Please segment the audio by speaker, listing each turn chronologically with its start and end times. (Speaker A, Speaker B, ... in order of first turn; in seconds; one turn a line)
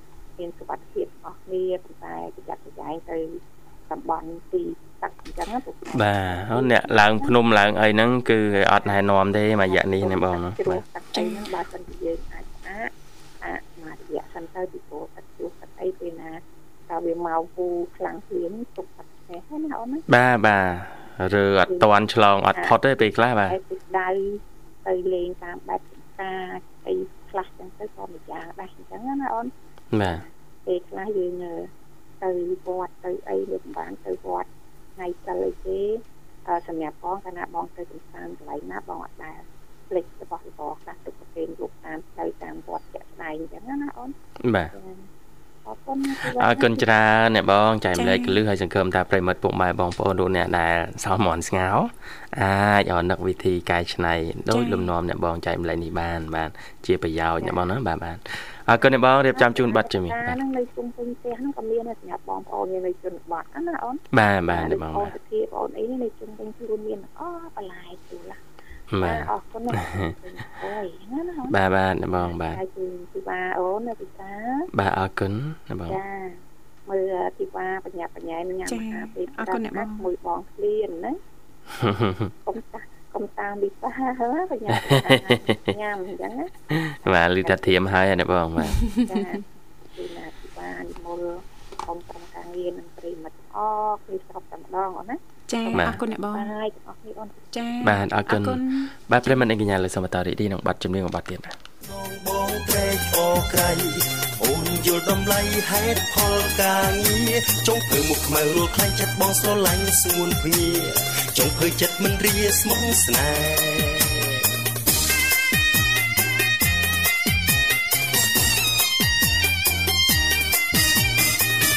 Speaker A: 0.4-7.3
Speaker B: 5.9-10.8
Speaker A: 9.7-20.0
Speaker C: 11.1-11.5
Speaker B: 20.1-23.6
Speaker A: 23.4-29.5
Speaker B: 29.9-30.2
Speaker A: 30.0-31.7
Speaker A: 32.2-44.1
Speaker B: 44.4-44.7
Speaker A: 44.7-45.1
Speaker A: 45.6-46.8
Speaker B: 46.2-60.4
Speaker C: 47.9-48.4
Speaker C: 54.5-54.9
Speaker A: 57.4-57.7
Speaker A: 59.3-68.4
Speaker B: 64.1-65.1
Speaker B: 68.9-70.1
Speaker A: 69.0-71.6
Speaker B: 71.5-72.6
Speaker A: 72.2-74.7
Speaker B: 74.7-76.0
Speaker A: 75.9-81.2
Speaker C: 78.7-80.1
Speaker B: 81.8-82.3
Speaker A: 82.5-87.9
Speaker B: 84.7-85.6
Speaker B: 86.7-88.8
Speaker C: 88.7-89.4
Speaker A: 89.1-97.5
Speaker C: 95.5-96.5
Speaker B: 95.7-96.0
Speaker C: 97.5-98.9
Speaker B: 97.8-101.5
Speaker D: 101.9-114.4